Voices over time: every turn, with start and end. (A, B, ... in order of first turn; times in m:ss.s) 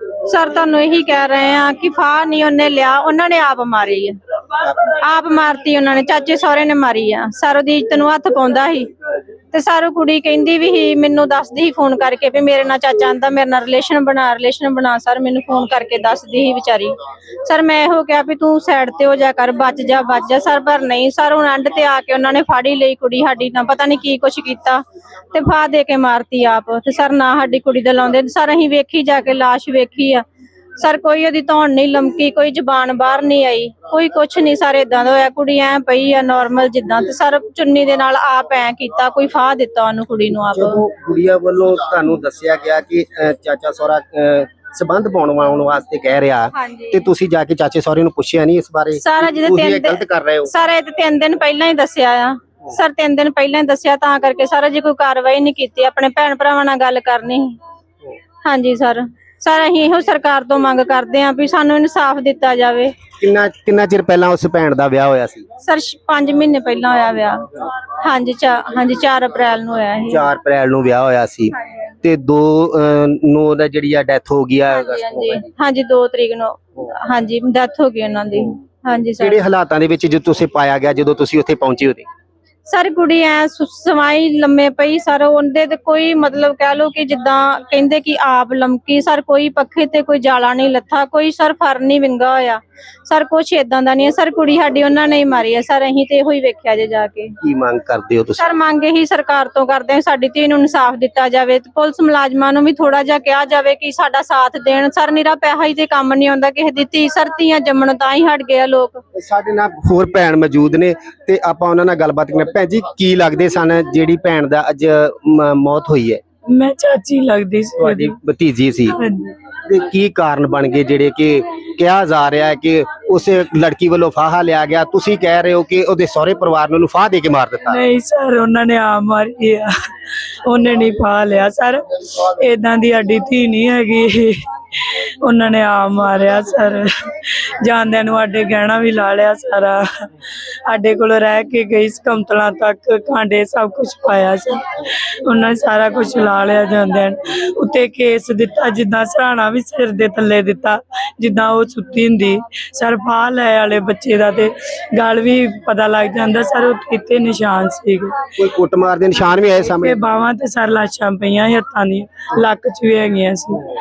0:00.2-0:04.2 A
0:04.9-0:08.9 A
0:09.5-0:16.9 A
0:17.4-0:30.2 A
0:30.8-0:40.8 A
0:40.5-0:50.5 B
0:46.5-0:47.1 A
0:49.0-0:57.6 A
0:58.4-1:02.9 A
1:03.2-1:05.4 B
1:05.6-1:07.5 A
1:08.0-1:10.2 A
1:10.1-1:15.5 B
1:14.7-1:19.4 A
1:19.2-1:22.1 B
1:22.6-1:37.3 A
1:37.4-1:38.4 B
1:38.4-1:49.0 A
1:49.2-1:56.2 B
1:56.5-1:58.2 C
1:57.8-1:59.0 B
1:59.0-1:59.3 C
1:59.6-2:07.8 B
2:07.7-2:38.1 C
2:38.4-2:40.0 B
2:39.6-2:43.6 C